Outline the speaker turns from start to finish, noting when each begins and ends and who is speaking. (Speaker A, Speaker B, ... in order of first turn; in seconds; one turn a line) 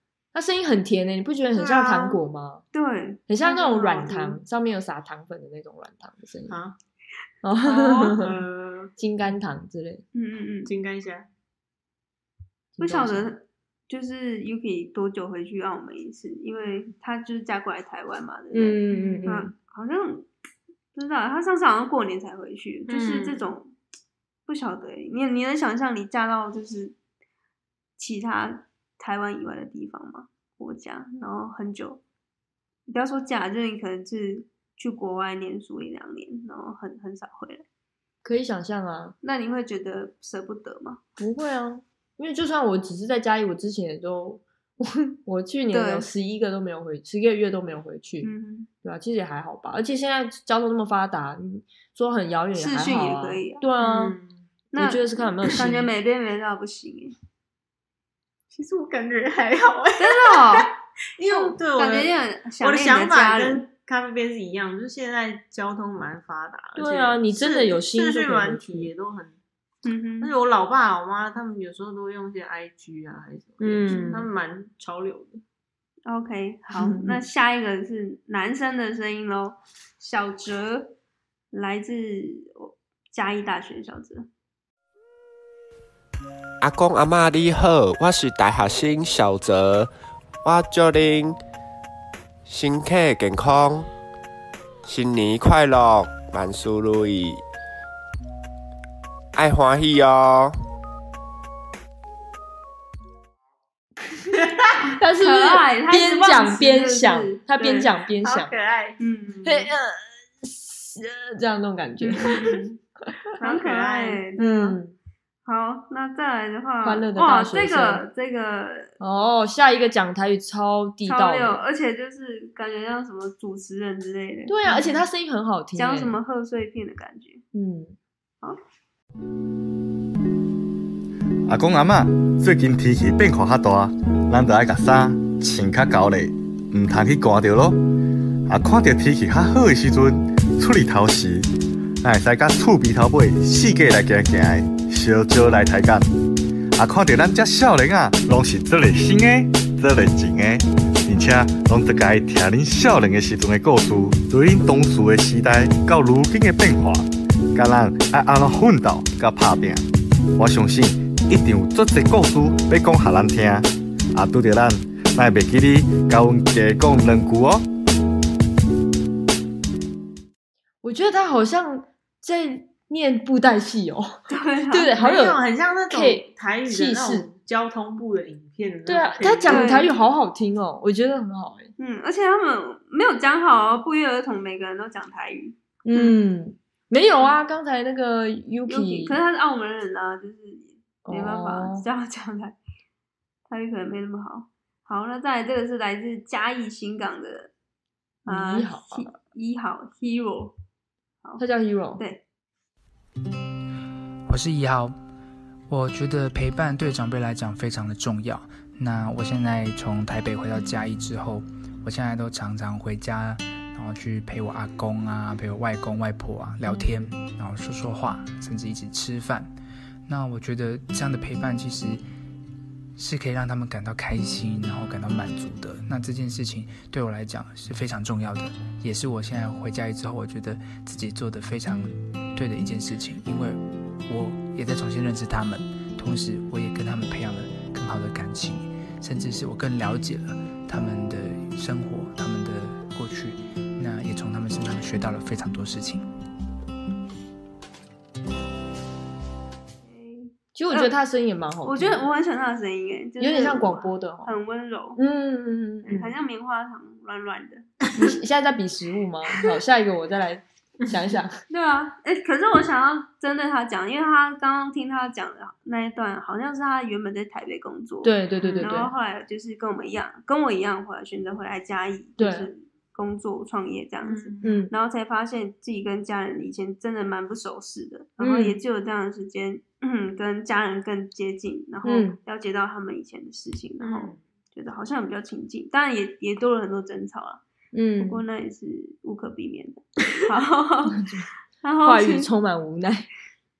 Speaker A: 0.3-2.6
Speaker B: 1.6-2.2
Speaker C: 2.7-4.4
Speaker A: 3.3-6.6
Speaker B: 6.5-6.8
Speaker A: 7.4-8.3
Speaker C: 7.7-8.2
Speaker B: 8.2-8.9
Speaker A: 9.0-10.0
Speaker C: 10.1-10.7
Speaker B: 10.7-11.3
Speaker A: 12.8-13.3
Speaker C: 12.8-20.3
Speaker A: 18.5-19.5
Speaker B: 18.9-19.3
Speaker C: 20.9-23.7
Speaker B: 22.9-23.4
Speaker C: 24.5-26.9
Speaker C: 28.0-32.0
Speaker C: 32.9-37.6
Speaker A: 38.2-39.1
Speaker C: 39.2-41.0
Speaker A: 41.2-48.3
Speaker C: 45.7-46.1
Speaker C: 48.2-48.7
Speaker A: 48.8-54.2
Speaker C: 52.5-53.6
Speaker B: 53.8-54.4
Speaker C: 54.7-57.1
Speaker A: 54.8-55.9
Speaker B: 58.5-60.7
Speaker C: 60.0-60.7
Speaker B: 61.2-69.4
Speaker C: 61.3-63.6
Speaker A: 66.8-68.9
Speaker C: 69.8-70.3
Speaker B: 70.2-75.4
Speaker A: 73.6-74.3
Speaker C: 76.0-81.0
Speaker A: 76.8-77.2
Speaker C: 81.5-84.3
Speaker D: 86.6-89.9
Speaker D: 90.4-91.4
Speaker D: 92.5-93.9
Speaker D: 94.8-97.4
Speaker D: 99.3-100.5
Speaker A: 105.0-108.5
Speaker C: 105.2-107.9
Speaker B: 108.2-109.0
Speaker C: 109.0-109.7
Speaker A: 109.4-112.4
Speaker C: 112.0-112.8
Speaker B: 112.2-112.5
Speaker B: 113.4-114.2
Speaker C: 113.4-114.8
Speaker A: 114.4-114.9
Speaker C: 115.4-118.9
Speaker A: 116.8-118.1
Speaker A: 119.0-121.6
Speaker C: 121.1-125.0
Speaker A: 124.5-126.2
Speaker C: 125.8-127.4
Speaker A: 127.5-128.0
Speaker E: 131.5-137.8
Speaker E: 138.5-146.1
Speaker E: 146.7-167.7
Speaker A: 170.8-174.1
Speaker C: 174.3-174.9
Speaker A: 174.7-177.3
Speaker B: 175.0-179.7
Speaker A: 178.8-181.7
Speaker C: 179.4-179.9
Speaker C: 181.8-186.2
Speaker A: 185.8-189.1
Speaker C: 188.7-192.6
Speaker A: 191.1-191.8
Speaker C: 193.5-197.5
Speaker C: 198.2-200.5
Speaker A: 198.2-199.1
Speaker A: 201.4-202.0
Speaker F: 204.3-205.0
Speaker F: 205.7-219.5
Speaker F: 220.1-222.0
Speaker F: 223.0-246.1
Speaker C: 249.8-250.9
Speaker A: 250.5-252.0
Speaker C: 251.6-255.0
Speaker A: 253.2-254.3
Speaker A: 254.9-256.1
Speaker C: 255.9-257.6
Speaker A: 257.9-261.4
Speaker C: 261.5-287.4
Speaker A: 268.0-268.9
Speaker B: 268.4-268.8
Speaker A: 272.2-272.5
Speaker B: 274.0-274.5
Speaker A: 274.4-274.7
Speaker A: 278.2-278.6
Speaker A: 281.8-282.2
Speaker B: 283.8-284.2
Speaker A: 287.7-288.2
Speaker C: 288.0-291.1
Speaker A: 291.0-291.2
Speaker C: 291.6-292.3
Speaker A: 291.8-293.1